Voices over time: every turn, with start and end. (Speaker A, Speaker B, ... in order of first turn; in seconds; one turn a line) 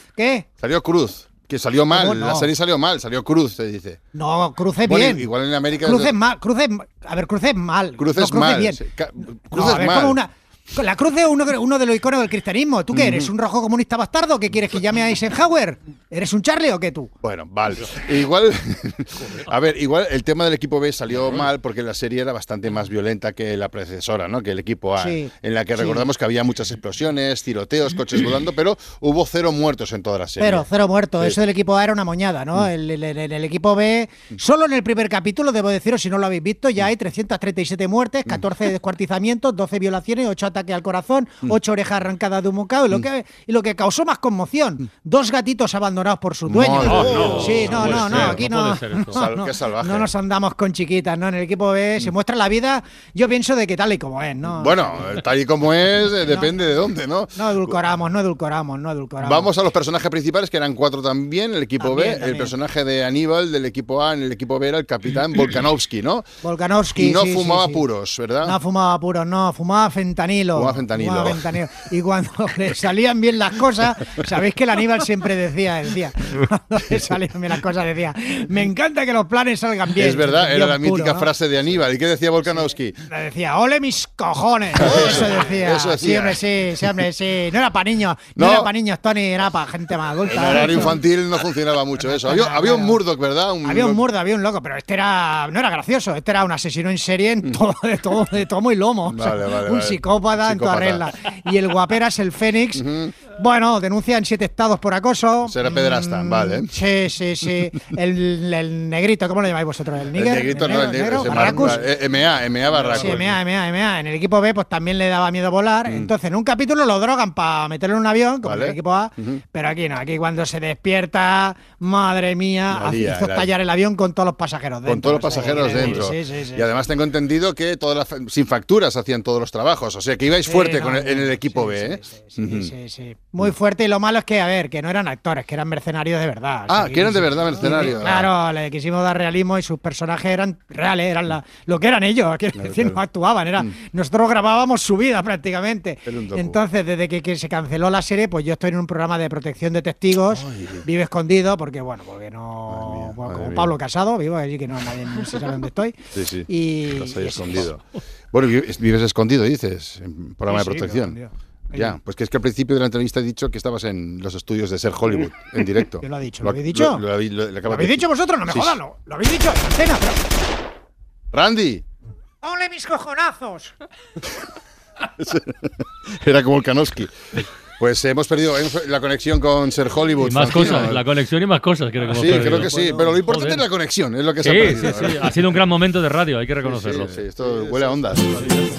Speaker A: 0.2-0.5
Speaker B: 0.6-4.0
Speaker A: 1.9-2.5
Speaker A: 4.1-8.8
Speaker B: 4.8-6.1
Speaker B: 8.0-10.2
Speaker A: 9.5-17.1
Speaker B: 12.9-13.3
Speaker B: 17.2-30.7
Speaker A: 25.0-26.0
Speaker A: 30.4-55.1
Speaker B: 46.5-48.5
Speaker C: 46.8-49.2
Speaker B: 49.1-50.1
Speaker B: 54.5-57.8
Speaker A: 56.2-56.5
Speaker A: 57.3-59.5
Speaker B: 59.2-66.2
Speaker A: 61.8-62.5
Speaker A: 66.4-67.8
Speaker B: 66.9-68.6
Speaker A: 68.4-81.3
Speaker B: 70.5-71.5
Speaker B: 80.0-83.0
Speaker A: 83.1-91.0
Speaker B: 84.8-86.9
Speaker B: 88.3-88.7
Speaker B: 90.2-94.0
Speaker A: 92.1-93.0
Speaker A: 93.6-111.8
Speaker B: 99.1-101.1
Speaker B: 102.7-103.1
Speaker B: 105.4-106.8
Speaker B: 110.1-113.3
Speaker A: 112.8-126.7
Speaker B: 118.4-119.4
Speaker B: 122.7-123.5
Speaker B: 124.8-132.7
Speaker A: 130.4-157.7
Speaker B: 136.7-138.3
Speaker B: 142.5-143.0
Speaker B: 146.1-146.6
Speaker B: 150.3-150.8
Speaker B: 152.7-153.7
Speaker B: 156.1-161.2
Speaker A: 160.5-161.9
Speaker B: 161.7-168.8
Speaker A: 166.0-167.0
Speaker A: 167.6-170.2
Speaker B: 171.3-171.8
Speaker A: 172.4-173.7
Speaker B: 175.1-181.1
Speaker C: 180.2-183.6
Speaker B: 182.1-185.3
Speaker C: 184.4-187.2
Speaker B: 186.6-188.3